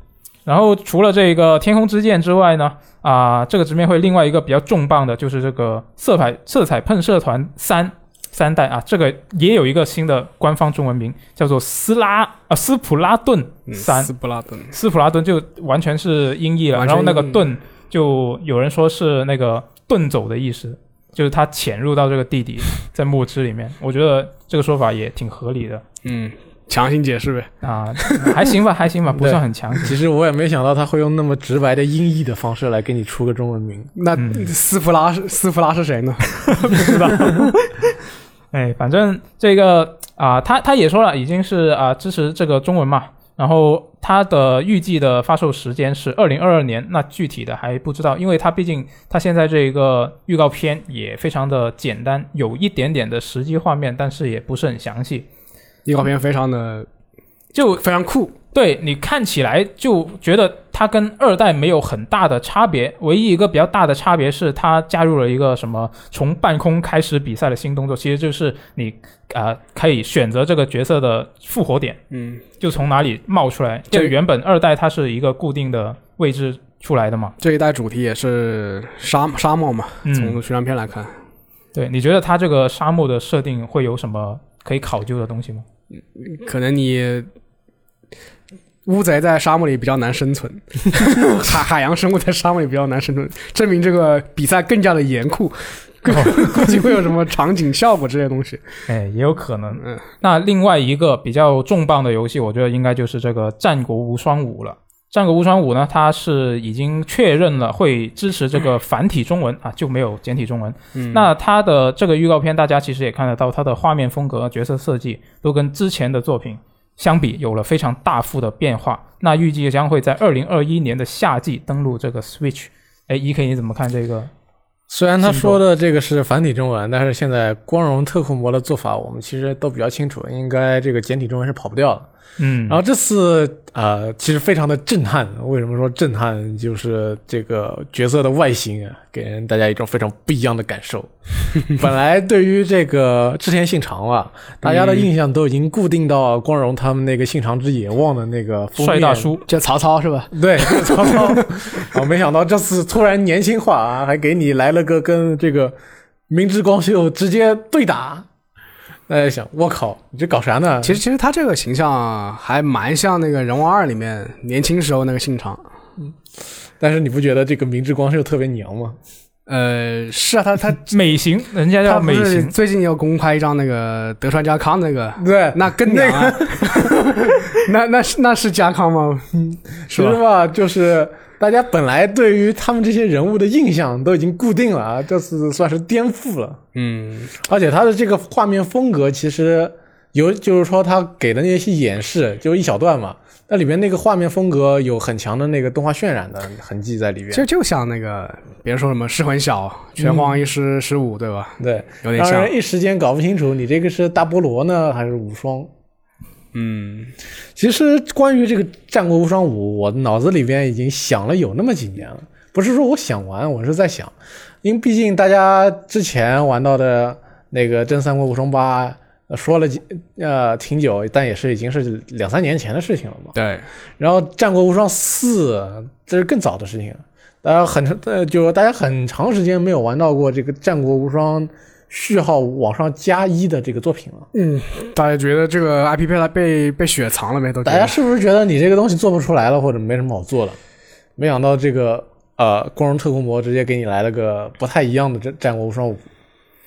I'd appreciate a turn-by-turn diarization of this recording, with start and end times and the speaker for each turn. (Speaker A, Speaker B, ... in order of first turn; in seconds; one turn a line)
Speaker A: 0.5-14.1
Speaker B: 13.7-14.7
Speaker A: 14.7-25.8
Speaker B: 16.8-17.4
Speaker B: 26.0-28.5
Speaker A: 27.6-29.9
Speaker C: 29.2-33.9
Speaker B: 34.0-37.4
Speaker A: 34.1-34.5
Speaker A: 36.5-37.9
Speaker A: 38.5-55.3
Speaker B: 55.9-56.9
Speaker A: 57.5-57.8
Speaker B: 57.8-58.4
Speaker A: 58.5-72.0
Speaker B: 72.1-72.5
Speaker A: 72.6-77.4
Speaker B: 77.4-81.2
Speaker A: 80.0-80.4
Speaker A: 81.7-85.7
Speaker B: 86.2-87.3
Speaker B: 88.8-98.6
Speaker A: 96.1-96.8
Speaker A: 98.9-124.3
Speaker B: 111.0-111.3
Speaker C: 124.9-132.1
Speaker A: 125.2-125.6
Speaker A: 132.4-132.8
Speaker C: 132.7-149.4
Speaker B: 144.6-145.1
Speaker A: 148.8-149.4
Speaker B: 149.5-151.9
Speaker C: 150.3-155.8
Speaker C: 156.3-158.3
Speaker C: 159.1-161.0
Speaker B: 160.8-165.6
Speaker C: 166.8-169.0
Speaker B: 169.5-170.9
Speaker A: 170.9-172.5
Speaker B: 171.8-180.2
Speaker C: 175.2-177.1
Speaker C: 179.9-186.6
Speaker B: 186.8-187.4
Speaker C: 187.4-197.5
Speaker B: 197.3-202.5
Speaker C: 201.6-205.7
Speaker B: 206.5-207.1
Speaker C: 207.6-223.3
Speaker B: 223.3-223.7
Speaker C: 224.0-234.3
Speaker B: 234.3-238.0
Speaker C: 237.7-240.6
Speaker C: 241.2-246.0